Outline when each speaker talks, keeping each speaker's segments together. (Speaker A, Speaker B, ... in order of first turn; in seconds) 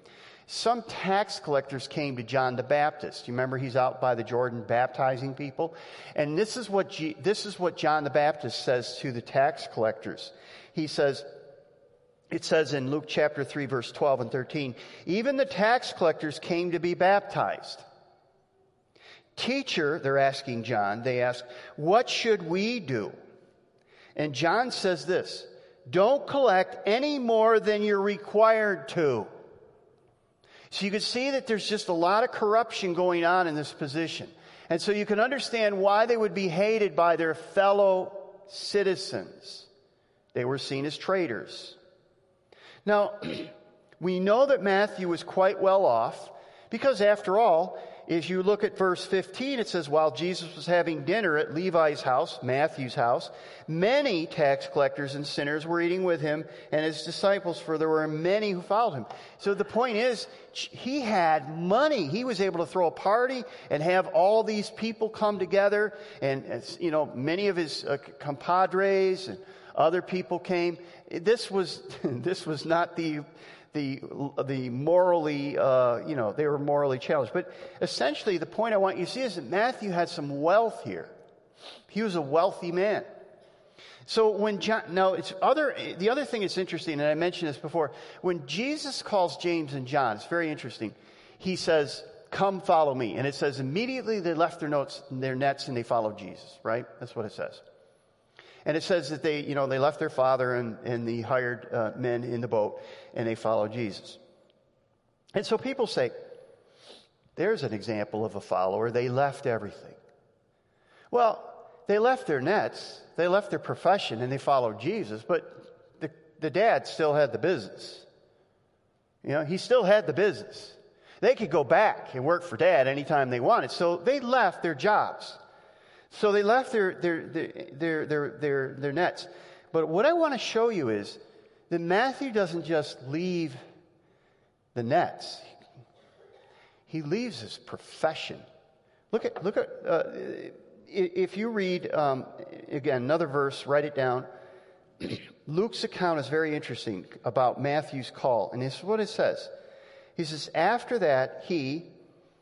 Speaker A: 0.5-11.3, 12.3-17.9, 19.4-23.1, 24.2-29.3, 30.7-39.7, 40.3-41.8, 42.9-81.2, 81.9-83.1, 84.1-97.6, 98.7-104.2, 105.3-106.1, 107.4-110.0, 111.1-118.1, 119.2-125.4, 126.1-133.6, 134.8-135.5, 136.9-138.4, 139.1-144.3, 145.0-149.5, 150.2-151.9